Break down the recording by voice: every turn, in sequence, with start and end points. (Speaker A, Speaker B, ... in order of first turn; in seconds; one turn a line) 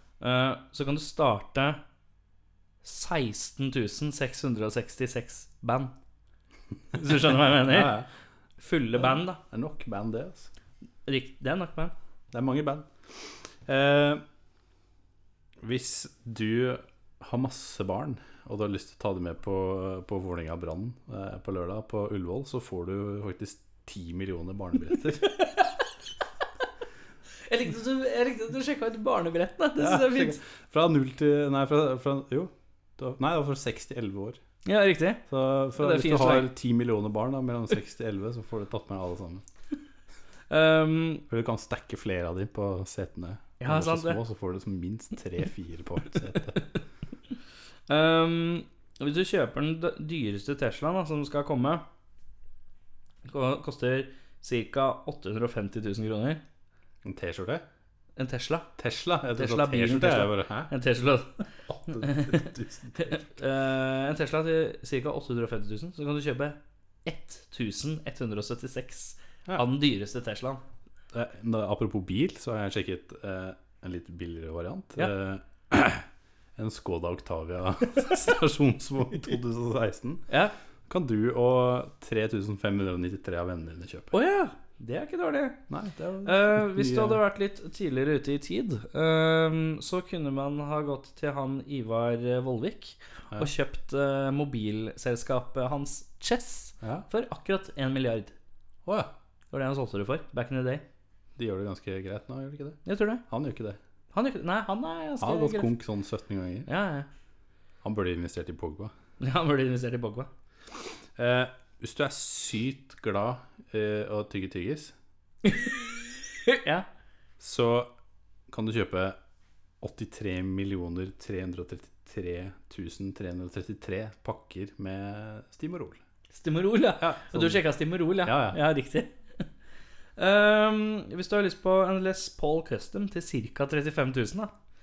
Speaker A: 0.2-1.8
Speaker A: 2.8-5.9
Speaker A: 6.9-8.0
Speaker B: 7.6-8.1
Speaker A: 8.6-9.4
Speaker B: 9.0-10.5
Speaker A: 11.1-11.9
Speaker B: 12.3-14.2
Speaker B: 15.6-25.4
Speaker A: 25.2-25.7
Speaker A: 27.5-30.4
Speaker B: 29.8-34.4
Speaker A: 34.6-35.2
Speaker B: 35.3-39.4
Speaker A: 35.8-36.5
Speaker A: 40.5-41.2
Speaker B: 41.3-46.7
Speaker A: 43.6-44.2
Speaker A: 47.9-51.8
Speaker A: 53.2-56.4
Speaker B: 57.0-57.6
Speaker A: 58.2-58.7
Speaker B: 58.8-60.7
Speaker A: 59.3-61.5
Speaker B: 61.7-63.3
Speaker A: 62.0-70.6
Speaker B: 71.1-76.0
Speaker B: 76.6-80.3
Speaker B: 80.9-84.1
Speaker A: 84.1-85.6
Speaker B: 85.7-87.2
Speaker A: 86.2-98.3
Speaker B: 96.8-97.1
Speaker B: 98.8-99.1
Speaker A: 99.5-100.8
Speaker B: 101.4-103.8
Speaker A: 102.8-103.2
Speaker A: 104.1-105.7
Speaker B: 105.2-106.7
Speaker A: 106.7-107.1
Speaker B: 107.8-108.9
Speaker A: 109.2-110.3
Speaker B: 111.2-114.9
Speaker A: 115.5-115.7
Speaker A: 116.5-116.8
Speaker B: 117.4-117.9
Speaker B: 118.5-119.2
Speaker B: 119.8-126.0
Speaker A: 126.3-129.4
Speaker B: 127.0-128.6
Speaker A: 130.2-134.5